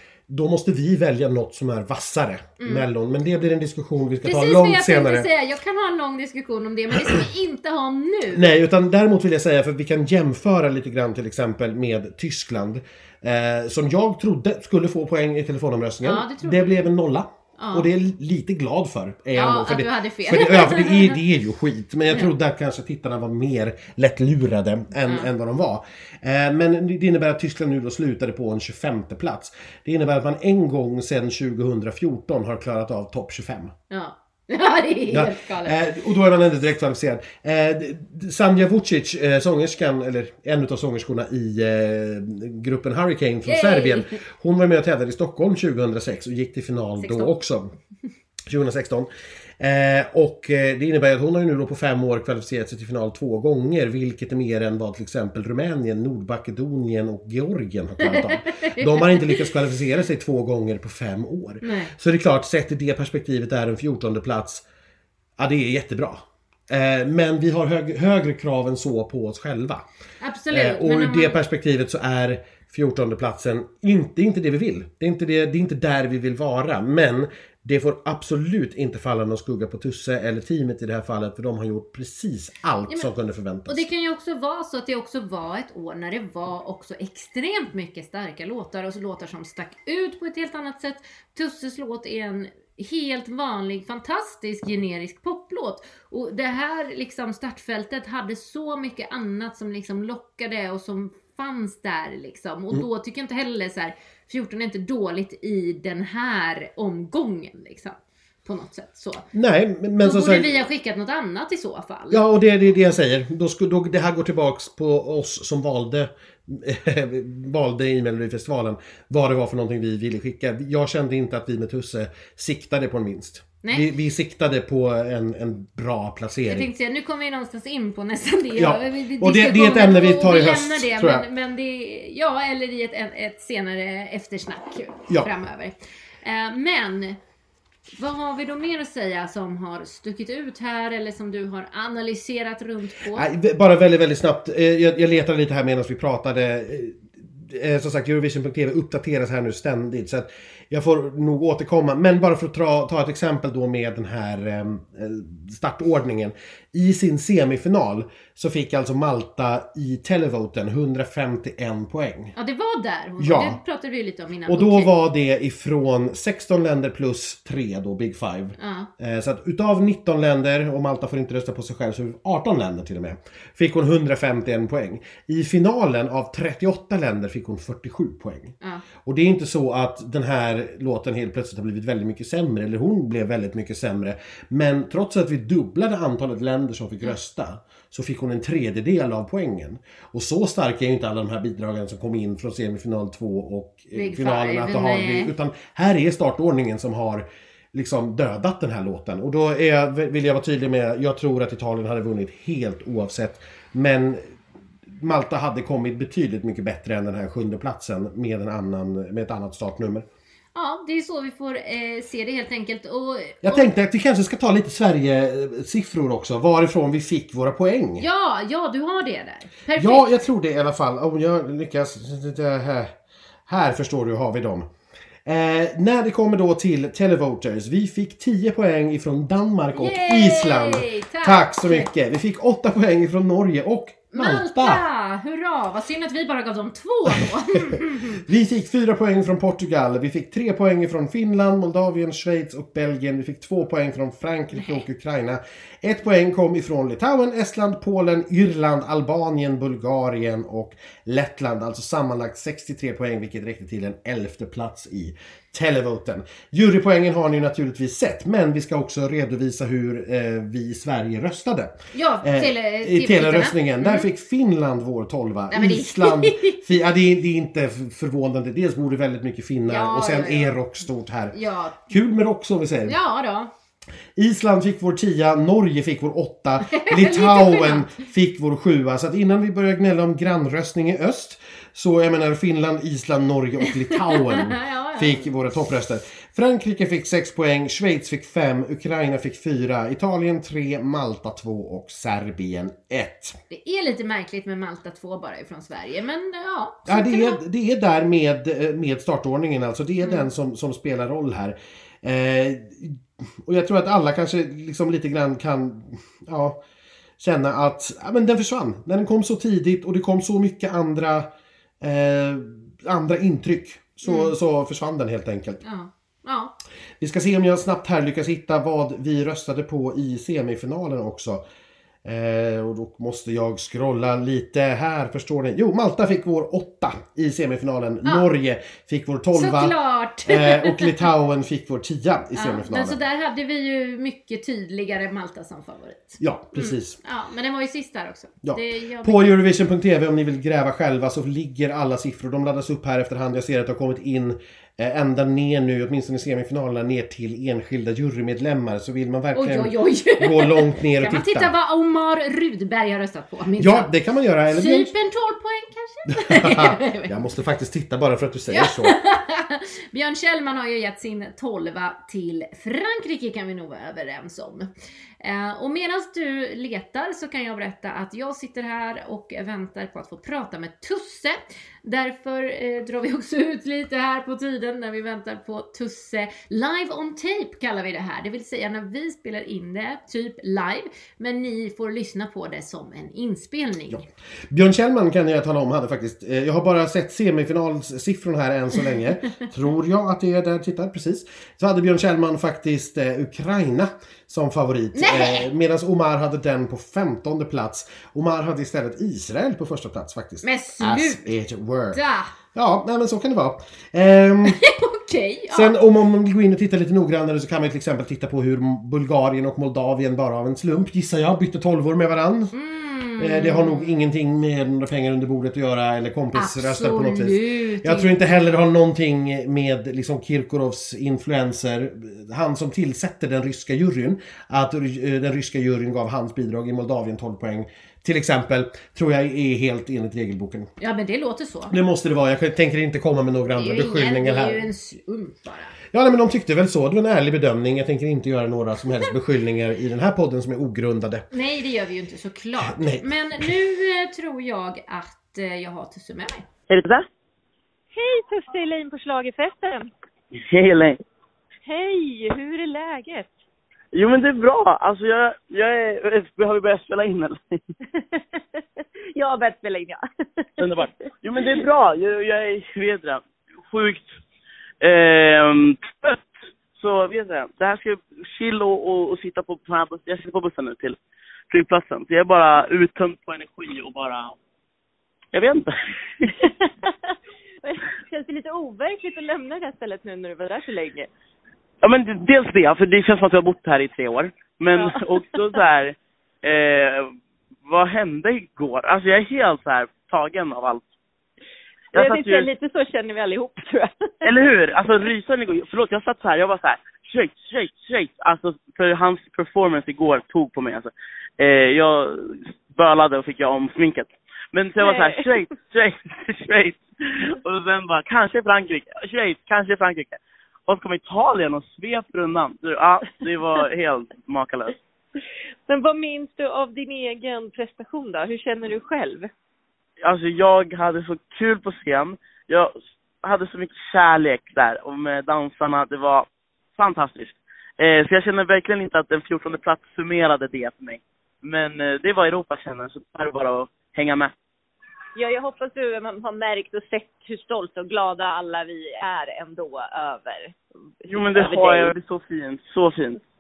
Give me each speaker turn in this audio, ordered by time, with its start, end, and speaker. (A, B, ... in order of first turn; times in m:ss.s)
0:00.3-0:05.3 A
0:02.6-0:02.8 B
0:04.2-0:08.4 B
0:08.3-0:33.7 A
0:16.0-0:16.9 B
0:17.6-0:17.9 B
0:19.3-0:21.2 B
0:33.9-0:35.8 B
0:35.1-0:47.7 A
0:43.4-0:44.2 B
0:47.0-0:47.3 B
0:48.5-1:04.6 A
0:58.0-0:59.4 B
1:01.6-1:01.9 B
1:05.4-1:09.8 A
1:10.2-1:11.4 B
1:10.5-1:23.8 A
1:23.7-1:49.3 B
1:49.3-1:50.5 A
1:50.0-1:52.2 B
1:52.1-2:06.7 A
2:06.5-2:17.2 B
2:08.6-2:11.2 A
2:18.0-2:23.3 B
2:23.1-2:42.3 A
2:42.4-2:44.9 B
2:43.2-2:43.6 A
2:44.5-3:24.3 A
2:48.6-2:48.9 B
3:13.9-3:15.3 B
3:25.0-3:30.0 A
3:30.5-3:33.7 B
3:33.4-3:38.0 A
3:38.0-3:40.1 B
3:39.7-3:42.9 A
3:43.5-3:44.7 A
3:45.2-3:54.8 A
3:49.7-3:51.9 B
3:54.1-3:58.2 B
3:57.7-4:33.0 A
4:04.5-4:04.8 B
4:21.9-4:24.1 B
4:25.5-4:26.6 B
4:29.7-4:30.6 B
4:31.3-4:31.9 B
4:32.9-4:33.5 B
4:34.2-4:53.4 A
4:36.6-4:38.0 B
4:43.9-4:45.3 B
4:53.5-4:57.4 B
4:56.8-5:06.6 A
5:00.0-5:00.3 B
5:07.2-5:11.3 A
5:11.8-5:15.6 A
5:14.0-5:14.3 B
5:15.6-5:16.5 B
5:17.0-5:21.4 A
5:22.0-5:33.0 A
5:29.3-5:31.1 B
5:32.3-5:39.4 B
5:36.2-5:37.0 A
5:38.4-5:51.5 A
5:49.3-5:53.9 B
5:53.6-5:54.9 A
5:54.5-5:57.2 B
5:56.1-5:59.0 A
5:58.5-6:04.7 B
6:05.2-6:24.0 B
6:23.9-6:42.0 A
6:34.9-6:35.5 B
6:40.4-6:41.3 B
6:41.9-6:42.3 B
6:42.5-6:44.6 A
6:44.4-6:45.7 B
6:45.5-6:52.5 A
6:52.5-6:53.9 B
6:53.2-7:10.7 A
6:56.3-6:58.3 B
7:10.8-7:11.7 B
7:11.7-7:14.7 A
7:13.5-7:15.7 B
7:15.9-7:21.2 A
7:21.3-7:26.4 B
7:22.6-7:23.5 A
7:26.7-7:27.0 C
7:27.9-7:29.9 D
7:30.3-7:31.0 C
7:31.6-7:33.3 D
7:33.9-7:37.6 C
7:37.9-7:41.4 D
7:40.6-7:44.1 C
7:44.8-7:51.0 C
7:51.5-7:54.4 C
7:55.3-7:56.3 C
7:56.4-8:01.1 D
8:01.8-8:10.8 C
8:04.7-8:05.0 D
8:11.9-8:12.5 C
8:11.9-8:13.9 D
8:14.2-8:34.7 C
8:24.8-8:25.3 D
8:35.7-8:39.3 D
8:40.0-8:54.3 C
8:55.1-9:01.9 D
9:01.1-9:03.2 C